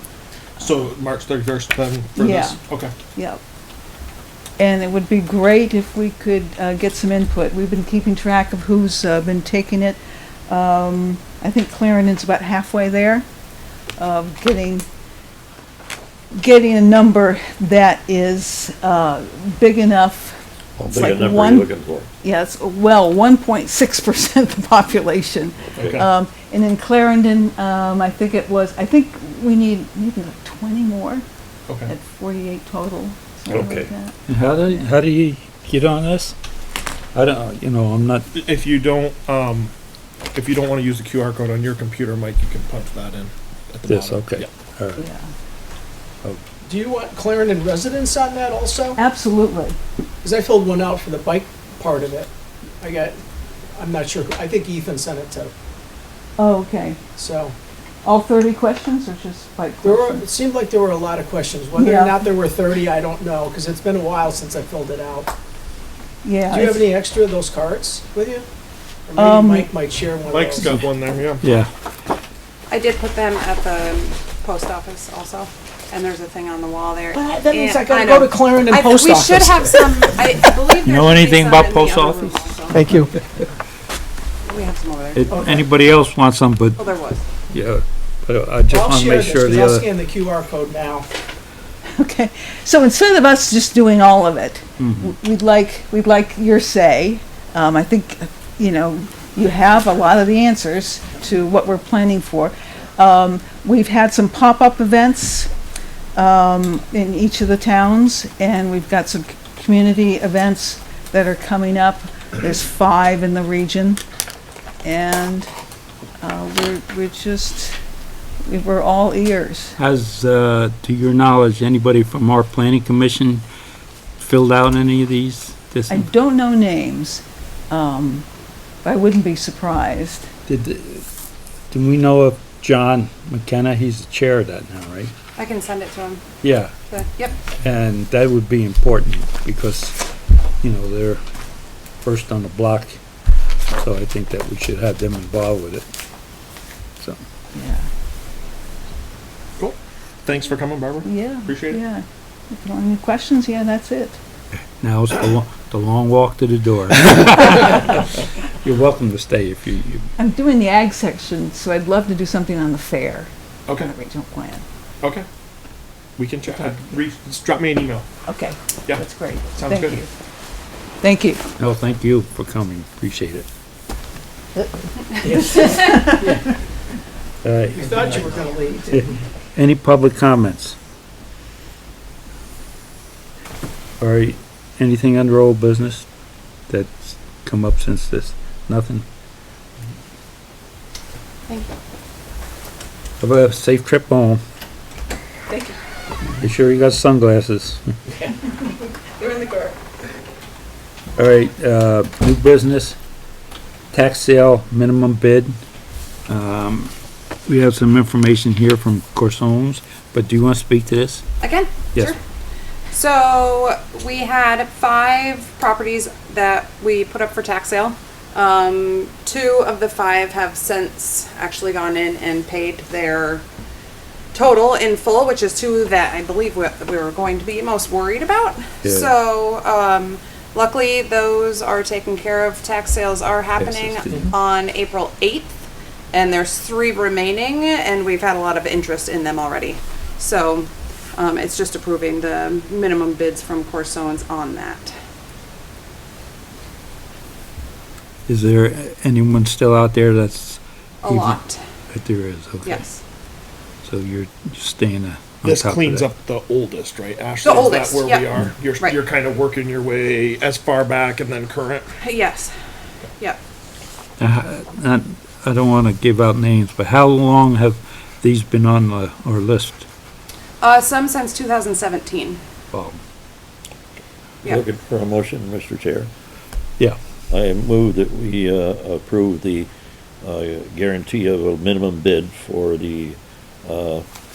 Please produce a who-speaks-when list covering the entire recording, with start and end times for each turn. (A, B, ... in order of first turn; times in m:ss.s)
0:00.6-0:02.9 A
0:02.2-0:02.6 B
0:03.2-0:03.4 B
0:04.6-0:13.2 B
0:14.0-0:14.8 B
0:16.3-0:20.4 B
0:20.8-0:22.1 C
0:20.9-0:21.7 B
0:22.2-0:31.2 B
0:25.6-0:26.0 C
0:31.7-0:31.9 A
0:31.9-0:34.1 B
0:33.5-0:33.9 C
0:34.3-0:36.4 D
0:37.2-0:38.3 D
0:38.3-0:39.7 A
0:40.3-0:44.5 A
0:43.9-0:45.0 D
0:45.0-0:45.3 B
0:46.6-0:49.0 E
0:49.0-0:49.8 B
0:50.2-0:52.3 E
0:52.8-0:53.2 E
0:53.8-0:55.5 E
0:56.4-0:57.0 B
0:57.2-0:57.6 E
0:58.0-1:00.2 B
0:59.8-1:05.3 E
1:01.8-1:02.2 B
1:06.2-1:06.9 B
1:06.5-1:08.5 E
1:09.1-1:10.7 E
1:09.2-1:09.7 B
1:10.3-1:11.4 A
1:11.4-1:11.7 D
1:12.7-1:23.1 F
1:17.1-1:20.1 E
1:20.8-1:23.1 D
1:22.7-1:23.1 E
1:24.4-1:25.3 F
1:25.1-1:26.8 D
1:25.3-1:25.7 E
1:26.8-1:27.2 F
1:27.5-1:29.9 D
1:28.7-1:31.1 E
1:31.9-1:45.5 B
1:34.8-1:35.2 D
1:46.2-1:54.0 B
1:54.8-1:55.5 B
1:56.2-1:57.8 B
1:58.4-1:59.8 B
1:59.8-2:03.4 D
2:04.2-2:06.1 D
2:05.9-2:08.3 B
2:08.8-2:10.3 B
2:10.5-2:11.0 D
2:11.7-2:15.1 D
2:15.4-2:16.2 F
2:16.4-2:16.8 D
2:16.9-2:17.4 F
2:17.6-2:20.0 D
2:20.6-2:21.2 D
2:22.0-2:23.0 D
2:23.7-2:25.9 D
2:27.6-2:27.9 B
2:29.6-2:31.8 A
2:31.0-2:34.2 B
2:34.8-2:40.1 D
2:40.2-2:44.6 B
2:43.7-2:43.9 A
2:46.2-2:48.1 A
2:46.5-2:46.9 B
2:48.3-2:50.1 B
2:48.9-2:50.0 A
2:51.0-2:51.4 B
2:51.6-2:53.5 D
2:54.6-2:56.5 B
2:55.3-2:56.4 D
2:57.4-2:58.3 D
2:57.7-2:59.1 E
2:58.9-3:00.8 D
3:04.0-3:06.1 D
3:06.7-3:09.0 D
3:13.2-3:14.4 D
3:15.5-3:15.8 B
3:16.4-3:17.9 D
3:19.2-3:19.7 B
3:21.2-3:23.0 D
3:23.9-3:25.5 D
3:26.3-3:26.9 D
3:27.5-3:31.2 D
3:31.4-3:32.2 F
3:32.9-3:43.4 F
3:44.3-3:55.6 F
3:48.8-3:49.1 D
3:53.6-3:54.4 D
3:56.1-4:04.9 F
4:08.3-4:11.4 D
4:11.0-4:11.6 F
4:11.9-4:12.8 D
4:12.6-4:13.0 F
4:13.8-4:16.1 D
4:15.4-4:21.9 A
4:17.4-4:19.0 F
4:22.0-4:22.5 F
4:24.2-4:29.9 D
4:30.6-4:32.4 F
4:32.7-4:33.0 D
4:34.4-4:36.1 C
4:37.3-4:39.7 C
4:40.2-4:44.0 C